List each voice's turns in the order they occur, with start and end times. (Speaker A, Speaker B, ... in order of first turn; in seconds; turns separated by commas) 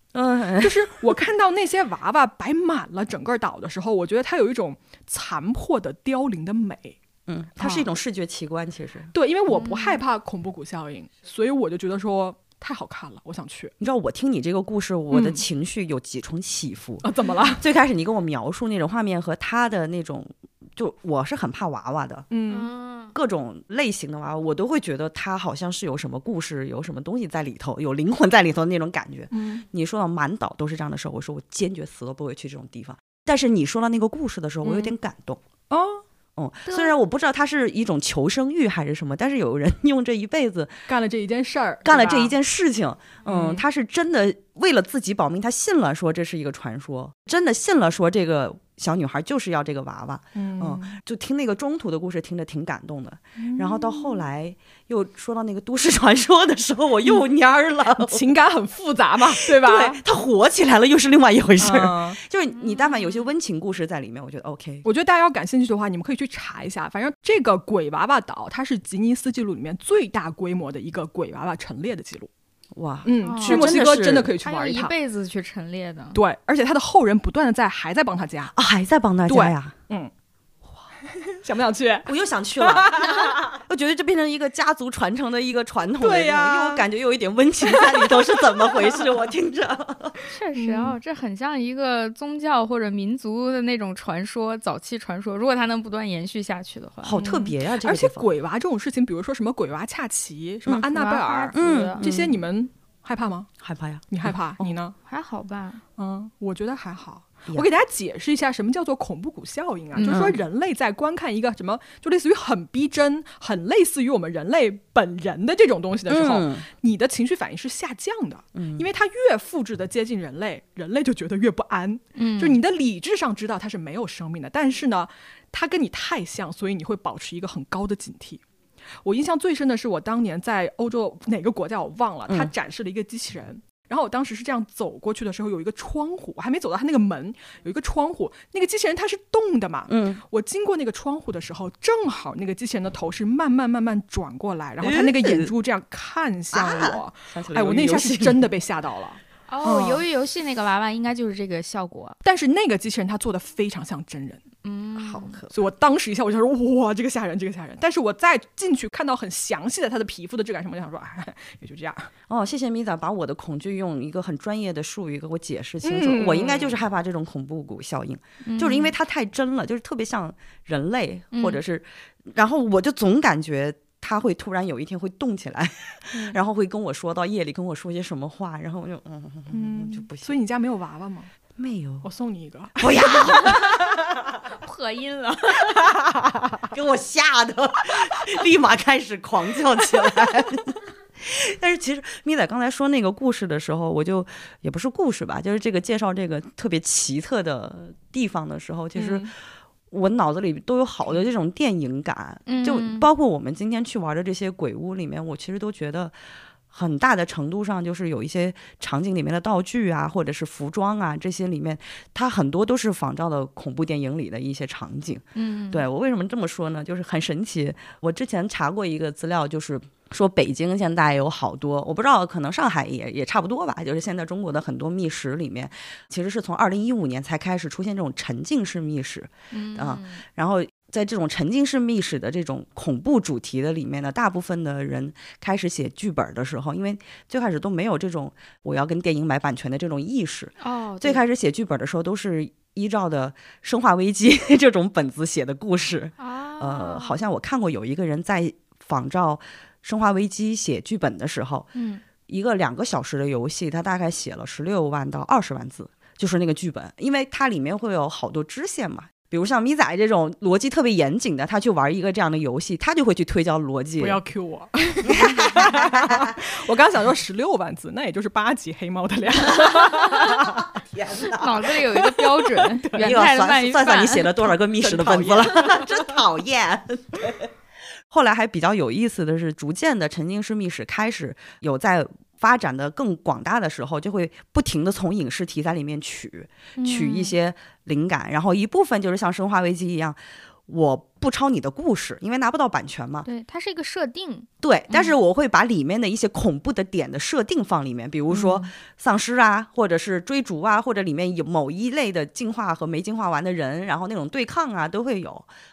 Speaker A: 0.1-1.1, Speaker B: 0.6-7.0, Speaker A: 7.3-9.1, Speaker B: 7.6-7.9, Speaker B: 9.1-13.7, Speaker C: 9.5-10.0, Speaker A: 13.8-22.3, Speaker B: 15.1-15.4, Speaker B: 17.0-17.6, Speaker B: 22.3-22.7, Speaker C: 22.5-23.1, Speaker A: 23.1-35.4, Speaker B: 29.3-29.6, Speaker B: 34.6-34.9, Speaker B: 35.7-36.0, Speaker A: 36.4-40.9, Speaker C: 36.7-37.0, Speaker B: 40.9-42.4, Speaker A: 41.9-58.2, Speaker B: 43.3-43.6, Speaker B: 50.4-51.0, Speaker B: 53.4-54.2, Speaker B: 58.0-60.0, Speaker A: 59.2-64.9, Speaker B: 61.6-62.2, Speaker C: 62.6-63.2, Speaker B: 64.8-72.3, Speaker A: 72.8-74.3, Speaker B: 73.0-74.9, Speaker C: 73.2-76.2, Speaker B: 76.1-78.6, Speaker A: 78.6-79.7, Speaker B: 79.3-80.1, Speaker B: 81.1-83.6, Speaker A: 82.1-90.2, Speaker B: 86.0-86.9, Speaker B: 87.6-89.0, Speaker C: 90.3-97.2, Speaker B: 90.5-91.0, Speaker A: 97.0-98.3, Speaker B: 97.2-103.5, Speaker C: 100.9-102.0, Speaker A: 101.5-102.4, Speaker A: 103.6-104.3, Speaker B: 104.1-105.0, Speaker C: 105.0-105.8, Speaker B: 106.0-128.4, Speaker C: 110.0-110.3, Speaker A: 110.1-110.4, Speaker A: 116.1-116.7, Speaker A: 118.5-118.9, Speaker C: 122.2-122.6, Speaker B: 129.0-150.0, Speaker A: 132.3-132.5, Speaker A: 139.9-140.2, Speaker A: 144.8-145.5, Speaker A: 146.5-148.5, Speaker C: 149.5-152.2, Speaker B: 152.2-154.4, Speaker C: 154.6-155.3, Speaker A: 155.0-155.5, Speaker B: 155.5-162.1, Speaker A: 162.3-180.3, Speaker B: 165.8-166.8, Speaker C: 168.4-168.9, Speaker C: 171.3-171.6, Speaker B: 179.5-181.3, Speaker A: 181.6-182.1, Speaker B: 182.0-183.7, Speaker A: 182.8-184.4, Speaker C: 183.2-183.8, Speaker C: 184.5-185.9, Speaker A: 186.6-199.3, Speaker B: 199.0-199.3, Speaker A: 199.9-206.2, Speaker C: 202.5-203.1, Speaker A: 206.7-251.7, Speaker C: 215.3-215.8, Speaker C: 229.5-230.2, Speaker C: 240.6-241.2, Speaker C: 246.2-247.2, Speaker C: 251.8-252.0, Speaker A: 252.3-264.2, Speaker B: 264.0-270.7, Speaker A: 265.1-266.4, Speaker A: 270.2-272.1, Speaker C: 271.2-274.5, Speaker B: 272.8-273.1, Speaker A: 272.9-277.5, Speaker B: 274.8-276.2, Speaker A: 278.1-293.3, Speaker C: 286.8-287.4, Speaker C: 293.3-295.1, Speaker A: 294.6-305.5